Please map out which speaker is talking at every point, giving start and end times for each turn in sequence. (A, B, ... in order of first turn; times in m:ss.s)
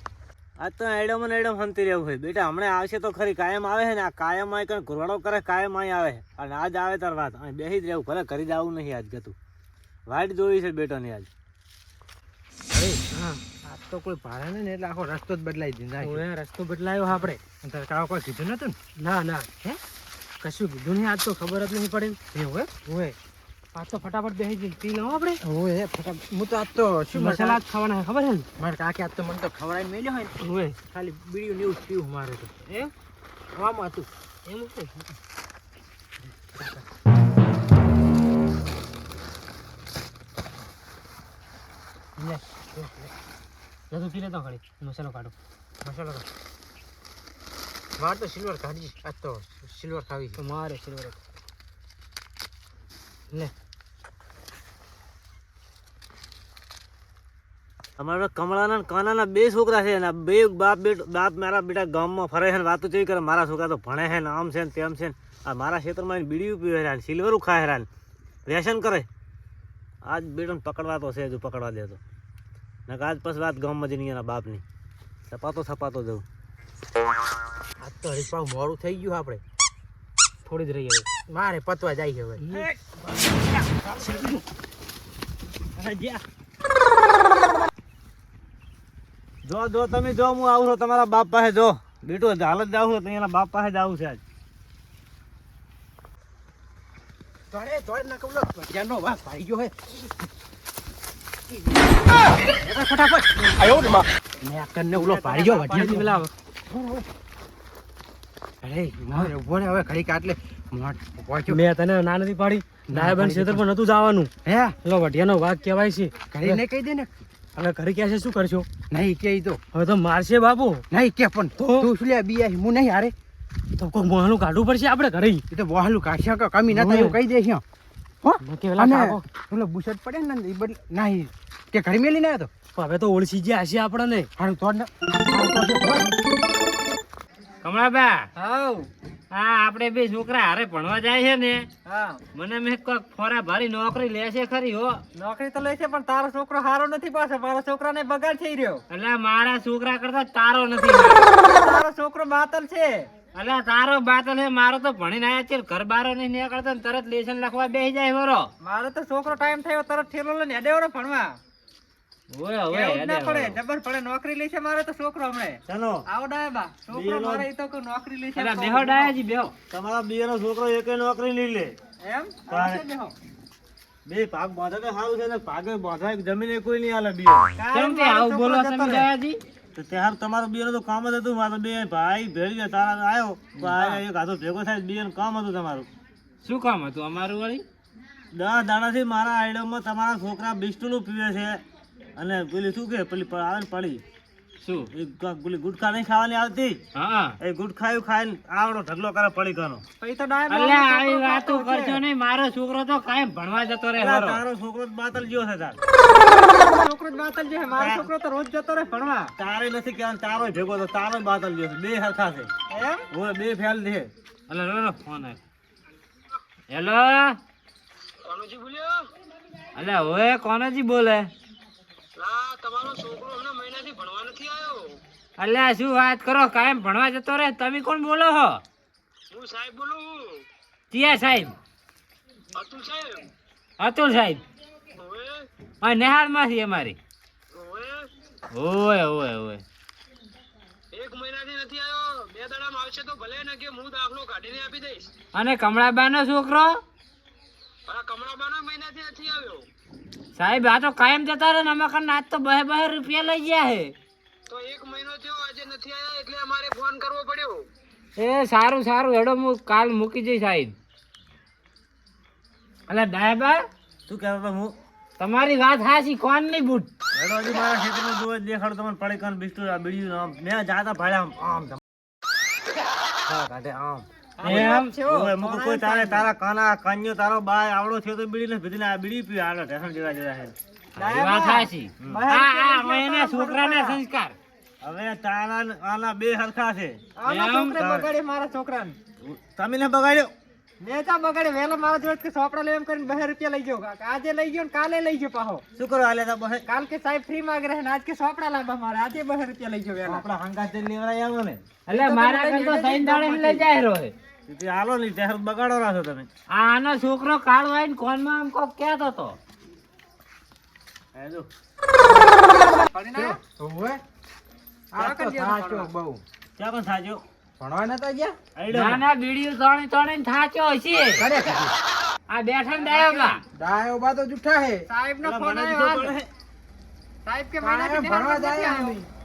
0:00.6-0:09.3 A
0:10.1-0:11.3 A
0:12.7-0:13.0 B
0:13.1-0:13.4 C
0:13.6-0:16.2 B
0:16.0-0:17.4 C
0:17.6-0:18.8 B
0:19.0-0:19.5 C
0:20.4-0:23.2 C
0:22.3-0:22.7 B
0:23.7-0:25.4 C
0:25.4-0:27.6 B
0:27.1-0:28.5 C
0:28.6-0:30.3 B
0:30.4-0:30.8 C
0:30.9-0:32.5 B
0:32.7-0:32.9 C
0:33.5-0:34.1 B
0:34.4-0:35.1 C
0:36.5-0:36.8 B
0:42.2-0:43.1 C
0:43.9-0:45.3 C
0:45.8-0:46.2 B
0:48.0-0:50.4 B
0:50.4-0:51.2 C
0:58.0-1:07.9 A
1:08.5-1:09.1 A
1:10.0-1:12.0 A
1:12.9-1:14.6 A
1:15.3-1:16.2 A
1:17.8-1:19.4 B
1:20.4-1:21.0 C
1:21.3-1:22.4 B
1:22.4-1:22.7 C
1:22.5-1:24.4 A
1:25.8-1:26.2 A
1:29.4-1:34.2 A
1:37.5-1:40.1 B
1:41.5-1:47.0 B
1:45.0-1:46.0 D
1:45.7-1:46.3 C
1:48.6-1:51.6 B
1:51.5-1:54.3 C
1:52.9-1:53.6 B
1:54.4-1:54.8 B
1:54.8-1:56.6 C
1:56.3-1:57.3 B
1:57.5-1:58.7 C
1:58.9-1:59.6 B
1:59.7-2:00.8 C
2:00.9-2:03.1 B
2:01.6-2:01.9 C
2:03.8-2:05.4 C
2:05.5-2:07.6 B
2:06.7-2:07.2 C
2:08.2-2:12.5 B
2:08.4-2:09.2 C
2:12.7-2:14.3 C
2:14.4-2:16.2 B
2:17.6-2:18.2 E
2:18.4-2:18.9 D
2:19.3-2:21.6 E
2:21.8-2:22.2 D
2:22.3-2:25.0 E
2:25.2-2:28.8 D
2:28.9-2:31.4 E
2:31.4-2:33.1 D
2:33.3-2:38.5 E
2:38.6-2:41.4 D
2:42.3-2:43.6 E
2:42.7-2:49.1 D
2:45.7-2:46.0 A
2:46.9-2:47.5 A
2:48.4-2:49.5 E
2:49.7-2:51.7 A
2:52.0-2:53.1 D
2:52.5-2:52.8 A
2:54.1-2:57.5 A
2:57.6-2:59.1 D
2:57.7-2:59.4 E
2:59.8-3:05.9 A
3:03.6-3:04.0 E
3:06.4-3:07.6 E
3:08.3-3:11.6 A
3:12.2-3:14.0 A
3:14.6-3:14.9 E
3:14.9-3:16.8 A
3:16.9-3:17.4 E
3:17.4-3:19.8 A
3:20.0-3:22.0 D
3:20.5-3:24.4 E
3:24.0-3:25.8 A
3:26.1-3:29.3 D
3:27.7-3:28.1 A
3:29.4-3:32.5 A
3:32.7-3:33.1 D
3:33.1-3:34.1 A
3:34.5-3:35.4 E
3:36.7-3:37.4 E
3:39.7-3:41.3 E
3:42.8-3:43.1 C
3:45.4-3:48.6 E
3:50.9-3:51.6 E
3:52.6-3:53.0 C
3:53.8-3:54.4 E
3:55.8-3:57.0 E
3:57.6-3:57.9 C
3:58.5-3:59.6 E
4:00.9-4:05.1 C
4:05.3-4:06.8 E
4:07.9-4:09.6 C
4:10.3-4:13.9 E
4:14.5-4:17.5 C
4:18.2-4:20.8 E
4:22.9-4:23.7 E
4:24.1-4:24.7 A
4:25.2-4:26.9 E
4:27.1-4:31.8 A
4:33.3-4:40.5 A
4:34.4-4:36.3 D
4:34.4-4:34.9 E
4:41.0-4:44.0 D
4:41.0-4:44.4 E
4:44.8-4:47.0 A
4:47.2-4:49.0 D
4:47.2-4:47.8 E
4:47.8-4:48.1 A
4:49.2-4:50.3 A
4:50.8-4:55.6 D
4:55.8-4:56.6 A
4:56.6-5:00.2 D
5:00.0-5:01.6 A
5:01.8-5:04.1 E
5:01.9-5:03.6 D
5:04.5-5:06.3 A
5:06.5-5:09.4 E
5:11.1-5:11.5 A
5:12.0-5:13.4 D
5:13.1-5:14.0 B
5:14.9-5:16.2 B
5:15.0-5:15.9 D
5:16.6-5:17.2 A
5:17.6-5:18.4 B
5:18.6-5:19.0 A
5:18.7-5:21.2 E
5:21.2-5:21.7 B
5:22.3-5:23.4 E
5:22.8-5:23.4 D
5:23.5-5:24.8 B
5:24.9-5:26.1 D
5:25.2-5:26.3 A
5:27.2-5:29.0 D
5:27.6-5:29.0 B